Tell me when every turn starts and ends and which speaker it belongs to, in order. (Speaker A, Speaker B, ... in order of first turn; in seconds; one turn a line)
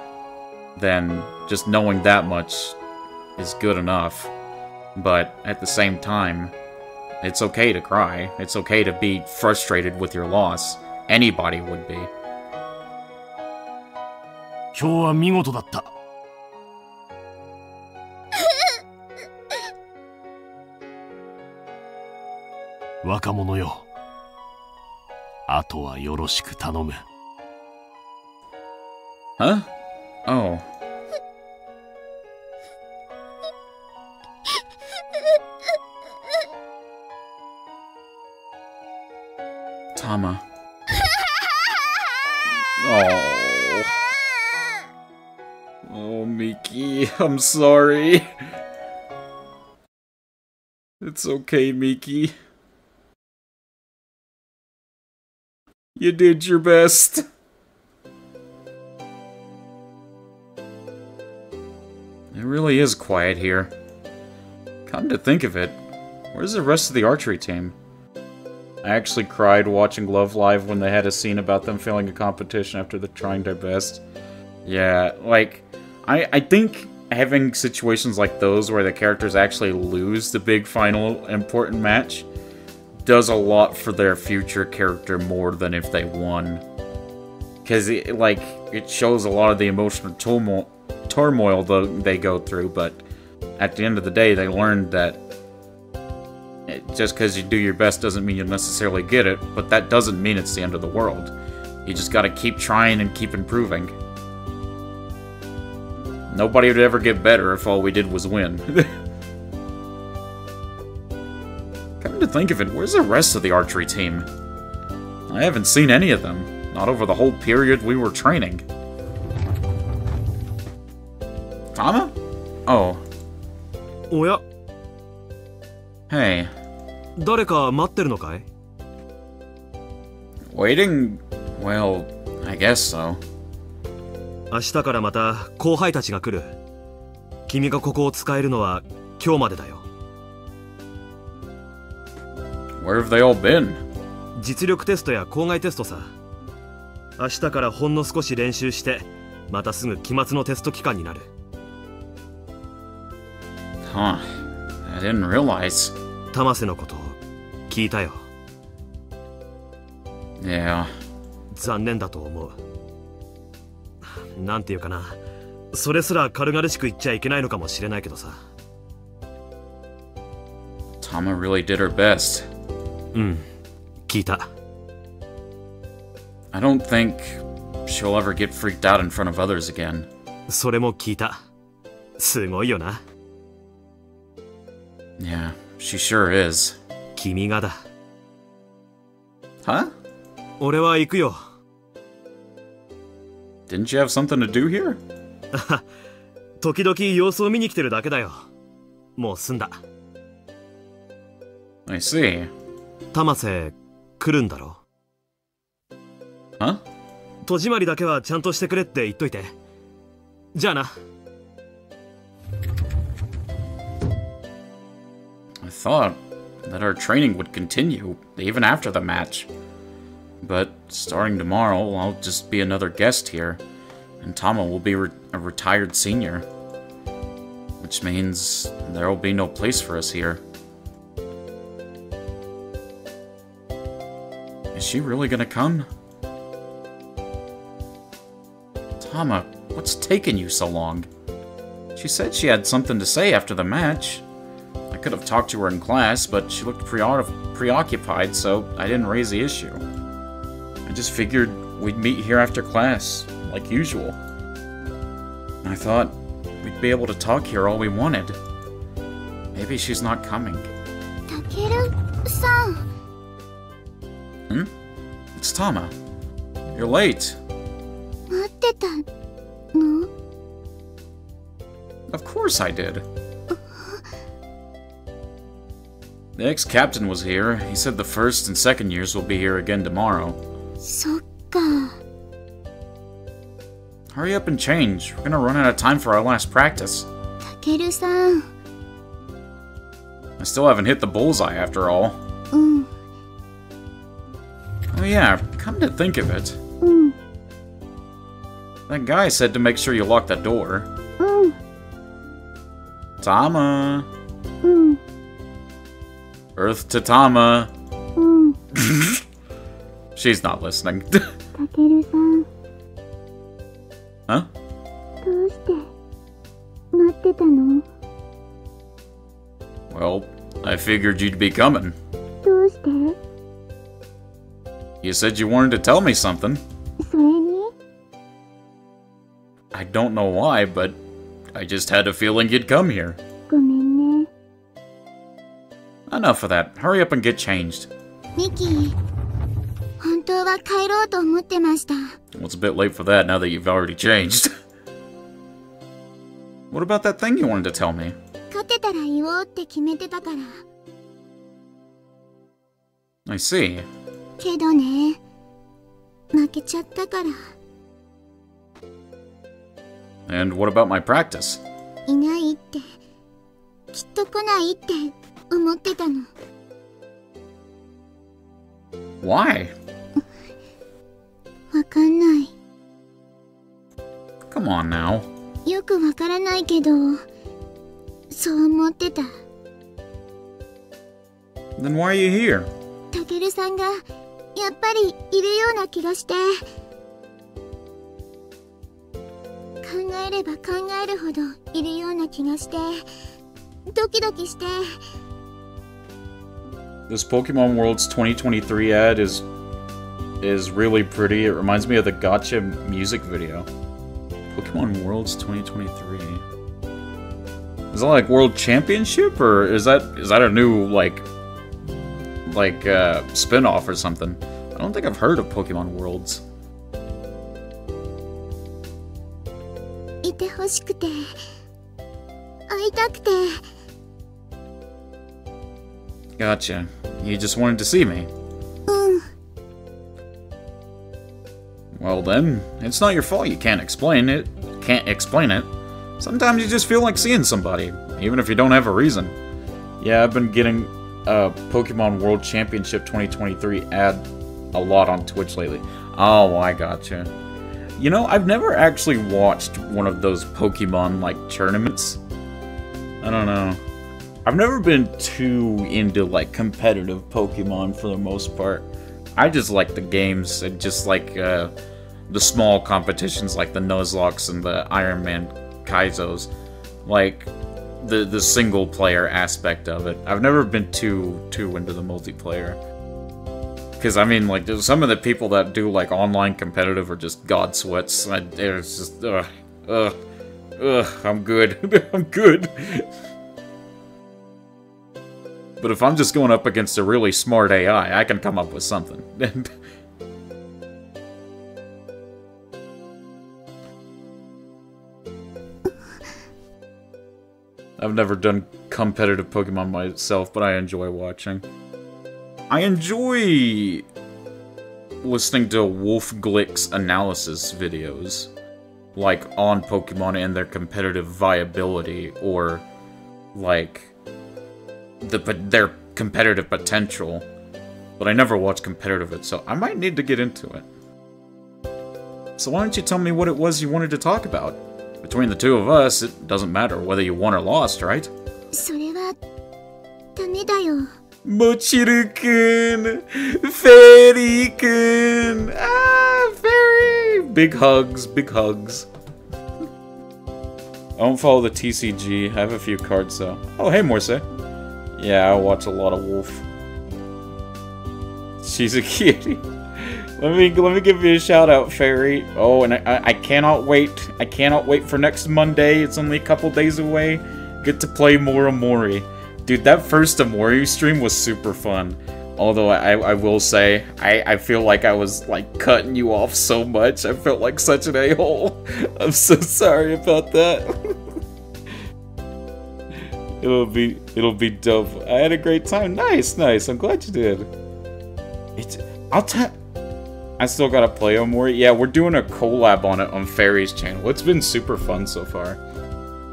Speaker A: 0.8-2.8
Speaker A: 3.4-4.3
Speaker A: 4.9-6.5
Speaker A: 7.2-12.1
Speaker B: 14.7-15.9
Speaker B: 23.0-23.9
Speaker B: 25.5-27.0
Speaker A: 29.4-29.7
Speaker A: 30.2-30.6
Speaker A: 39.9-40.4
Speaker A: 42.8-43.9
Speaker A: 45.8-48.3
Speaker A: 51.0-52.3
Speaker A: 55.9-57.3
Speaker A: 62.3-63.7
Speaker A: 64.8-65.8
Speaker A: 66.3-67.8
Speaker A: 68.8-74.0
Speaker A: 74.6-82.3
Speaker A: 83.0-86.6
Speaker A: 87.6-93.0
Speaker A: 93.6-95.2
Speaker A: 96.7-101.3
Speaker A: 101.8-103.9
Speaker A: 106.3-108.9
Speaker A: 112.0-114.3
Speaker A: 115.3-118.6
Speaker A: 121.7-122.1
Speaker A: 122.7-123.0
Speaker C: 124.1-124.4
Speaker A: 126.1-126.5
Speaker C: 127.2-128.5
Speaker A: 130.5-133.2
Speaker C: 134.5-136.6
Speaker C: 137.5-139.9
Speaker A: 142.8-143.8
Speaker C: 144.3-146.1
Speaker C: 147.2-151.3
Speaker A: 153.8-154.2
Speaker A: 154.8-155.9
Speaker C: 156.3-157.2
Speaker C: 157.7-158.2
Speaker A: 160.4-160.9
Speaker C: 161.5-162.6
Speaker C: 164.3-165.2
Speaker C: 165.7-168.4
Speaker A: 171.0-172.5
Speaker C: 173.1-173.4
Speaker C: 174.1-174.5
Speaker A: 176.5-180.1
Speaker C: 180.5-181.4
Speaker C: 182.2-183.0
Speaker A: 185.2-186.8
Speaker C: 187.2-187.8
Speaker A: 189.6-189.9
Speaker C: 190.6-191.4
Speaker A: 193.7-195.0
Speaker C: 195.5-195.8
Speaker C: 196.6-198.5
Speaker C: 199.2-199.8
Speaker A: 201.9-202.5
Speaker C: 203.1-204.8
Speaker C: 207.4-209.5
Speaker C: 210.5-210.9
Speaker A: 215.6-219.5
Speaker A: 220.4-223.6
Speaker A: 224.2-226.4
Speaker A: 227.8-230.4
Speaker A: 234.7-235.9
Speaker A: 239.0-241.1
Speaker A: 241.9-244.2
Speaker A: 244.9-249.8
Speaker A: 250.8-254.2
Speaker A: 255.6-258.4
Speaker A: 259.5-260.7
Speaker D: 261.3-262.8
Speaker A: 265.3-265.9
Speaker A: 266.7-267.4
Speaker D: 268.3-269.1
Speaker D: 269.7-270.1
Speaker A: 272.1-273.0
Speaker D: 273.7-274.0
Speaker A: 276.3-280.4
Speaker D: 280.8-281.9
Speaker A: 284.1-287.1
Speaker D: 287.5-288.5
Speaker A: 290.4-292.2
Speaker D: 292.5-292.9
Speaker A: 294.9-296.6
Speaker D: 296.8-297.1
Speaker A: 298.9-300.9
Speaker D: 301.2-301.6
Speaker A: 303.2-304.1
Speaker D: 304.6-305.0
Speaker A: 306.6-307.7
Speaker D: 308.2-308.6
Speaker A: 308.7-309.2
Speaker A: 310.1-311.3
Speaker D: 311.6-312.4
Speaker D: 315.2-315.9
Speaker D: 316.9-317.8
Speaker A: 319.9-321.9
Speaker D: 322.4-323.2
Speaker A: 325.0-326.6
Speaker D: 327.0-327.7
Speaker A: 329.7-331.0
Speaker A: 331.5-333.2
Speaker D: 333.5-334.3
Speaker A: 336.1-337.9
Speaker D: 338.4-338.9
Speaker D: 340.0-342.1
Speaker A: 342.3-344.5
Speaker A: 346.7-348.1
Speaker D: 348.5-350.6
Speaker A: 353.2-353.9
Speaker D: 354.4-355.2
Speaker D: 356.3-357.5
Speaker A: 360.3-361.6
Speaker D: 362.1-362.9
Speaker D: 363.9-366.3
Speaker A: 369.2-369.7
Speaker D: 371.7-372.5
Speaker A: 374.5-375.3
Speaker D: 375.6-377.2
Speaker D: 378.3-379.3
Speaker A: 381.8-382.7
Speaker D: 383.1-384.0
Speaker D: 384.5-386.6
Speaker D: 389.8-393.0
Speaker D: 393.9-394.9
Speaker A: 397.1-399.4
Speaker A: 400.4-403.7
Speaker A: 404.5-406.4
Speaker A: 407.9-411.2
Speaker A: 412.4-416.4
Speaker D: 420.2-421.4
Speaker D: 422.7-423.6
Speaker A: 426.4-428.3
Speaker D: 428.9-429.3
Speaker A: 431.9-439.4
Speaker A: 440.0-447.3
Speaker A: 448.0-452.2
Speaker A: 453.2-453.8
Speaker A: 454.4-461.7
Speaker A: 462.3-466.5
Speaker A: 467.0-467.5
Speaker A: 468.0-472.8
Speaker A: 474.0-480.1
Speaker A: 480.8-483.1
Speaker A: 485.8-489.7
Speaker A: 498.0-501.6
Speaker A: 502.7-504.1
Speaker A: 505.2-508.5
Speaker A: 509.1-512.8
Speaker A: 513.5-514.1
Speaker A: 515.2-517.5
Speaker A: 518.2-520.9
Speaker A: 522.6-528.3
Speaker D: 528.7-529.4
Speaker D: 530.4-531.1
Speaker A: 531.4-539.1
Speaker A: 541.2-544.5
Speaker A: 545.2-546.6
Speaker A: 548.6-571.1
Speaker A: 573.6-577.7
Speaker A: 578.8-579.8
Speaker A: 580.6-585.8